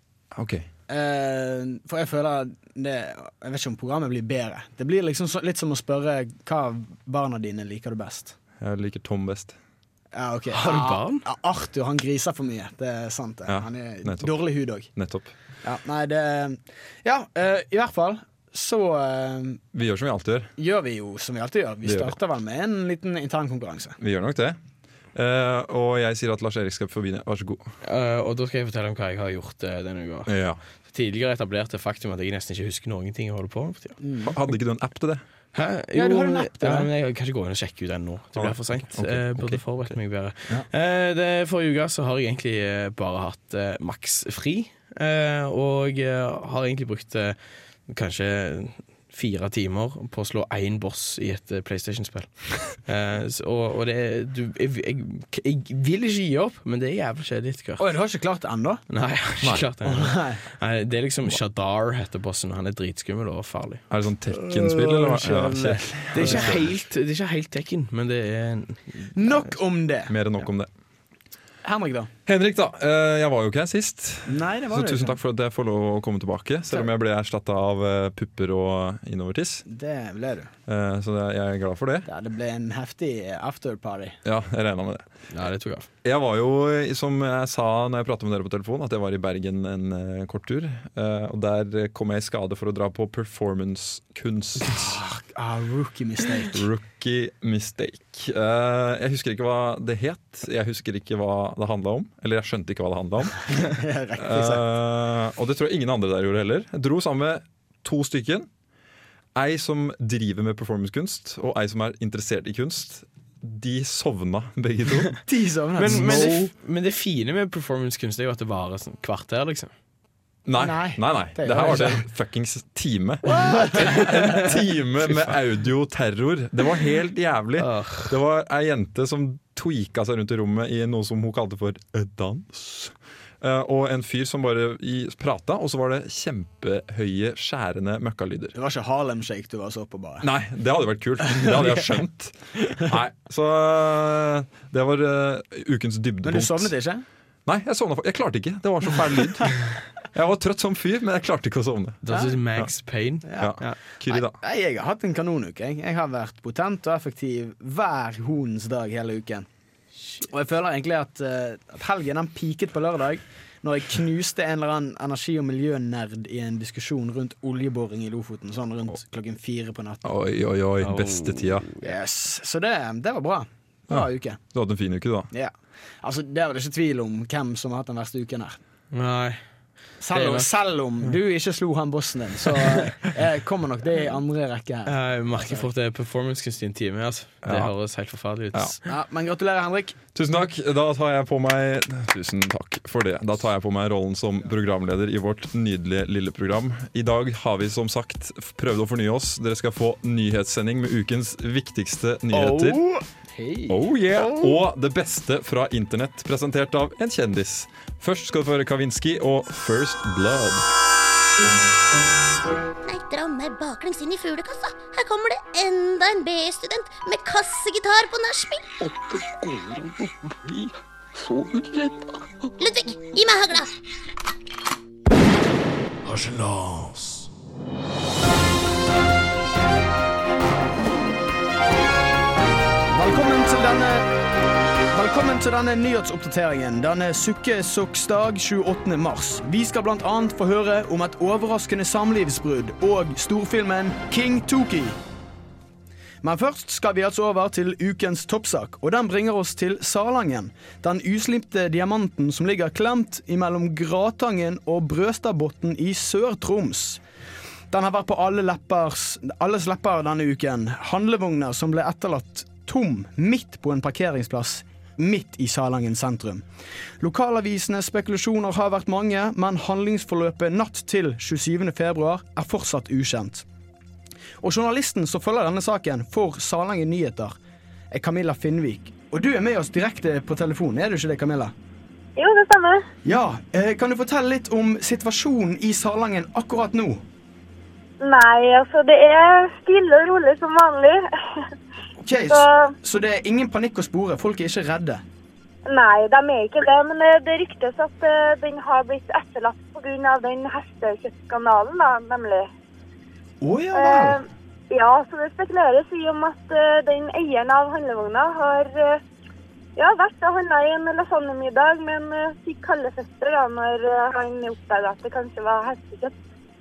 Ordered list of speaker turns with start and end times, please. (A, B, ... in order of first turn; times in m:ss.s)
0:00.3-0:00.7 A
0:00.9-0:08.4 B
0:08.6-0:09.6 A
0:10.1-0:14.9 B
0:10.5-0:11.2 C
0:13.5-0:14.4 A
0:15.0-0:15.3 A
0:15.6-0:19.6 B
0:19.7-0:20.5 A
0:20.6-0:24.0 B
0:21.8-0:22.2 A
0:24.0-0:24.6 A
0:25.2-0:27.7 A
0:27.8-0:30.3 C
0:30.3-0:30.6 A
0:30.9-0:34.0 C
0:34.0-0:34.4 B
0:34.2-0:35.2 A
0:35.5-0:47.4 C
0:35.9-0:36.9 B
0:38.4-0:39.6 A
0:47.9-0:57.8 C
0:57.8-0:58.8 B
0:58.9-1:03.8 C
0:59.8-1:00.4 B
1:03.9-1:06.7 A
1:04.3-1:06.6 B
1:06.1-1:09.5 C
1:09.2-1:10.1 B
1:10.1-1:10.7 A
1:11.6-1:12.1 B
1:12.3-1:19.6 A
1:14.3-1:15.2 B
1:19.7-1:20.5 B
1:20.7-1:22.1 A
1:22.1-1:24.2 B
1:24.2-1:25.0 A
1:25.3-1:25.9 C
1:26.0-1:35.0 A
1:34.6-1:36.7 B
1:36.5-1:43.6 A
1:43.5-1:44.6 B
1:44.2-1:48.5 A
1:49.4-1:55.2 A
1:55.3-1:56.4 B
1:55.8-1:59.7 C
1:55.9-1:56.5 A
2:00.5-2:18.6 A
2:00.6-2:02.1 B
2:03.3-2:04.6 C
2:03.4-2:04.1 B
2:07.6-2:08.2 C
2:18.6-2:20.3 B
2:20.2-2:26.7 A
2:21.3-2:21.9 B
2:26.2-2:27.0 B
2:27.5-2:29.6 A
2:30.1-2:32.0 A
2:32.0-2:33.8 C
2:32.1-2:32.4 B
2:33.3-2:33.6 B
2:33.4-2:34.4 A
2:34.1-2:39.5 B
2:40.2-2:50.0 B
2:50.0-2:51.7 A
2:50.8-2:51.9 C
2:51.8-2:54.4 B
2:53.9-2:55.3 A
2:55.3-2:58.6 B
2:58.9-2:59.4 C
3:00.0-3:05.7 B
3:00.1-3:00.5 C
3:04.8-3:08.8 C
3:07.4-3:07.7 A
3:08.9-3:10.0 B
3:10.2-3:22.8 A
3:22.3-3:23.0 C
3:23.3-3:23.8 B
3:23.7-3:30.6 A
3:32.8-3:38.7 D
3:42.6-3:43.7 D
3:46.1-3:47.1 C
3:52.9-3:54.1 B
3:54.9-4:05.0 B
4:06.2-4:17.0 B
4:17.7-4:26.5 B
4:27.0-4:33.4 B
4:34.4-4:37.4 B
4:37.9-4:41.5 B
4:42.2-4:42.9 E
4:43.0-4:47.0 B
4:48.0-4:51.5 E
4:52.0-4:55.0 B
4:52.3-4:52.7 E
4:55.7-5:02.5 E
5:03.4-5:04.2 B
5:03.7-5:09.0 E
5:09.8-5:16.1 E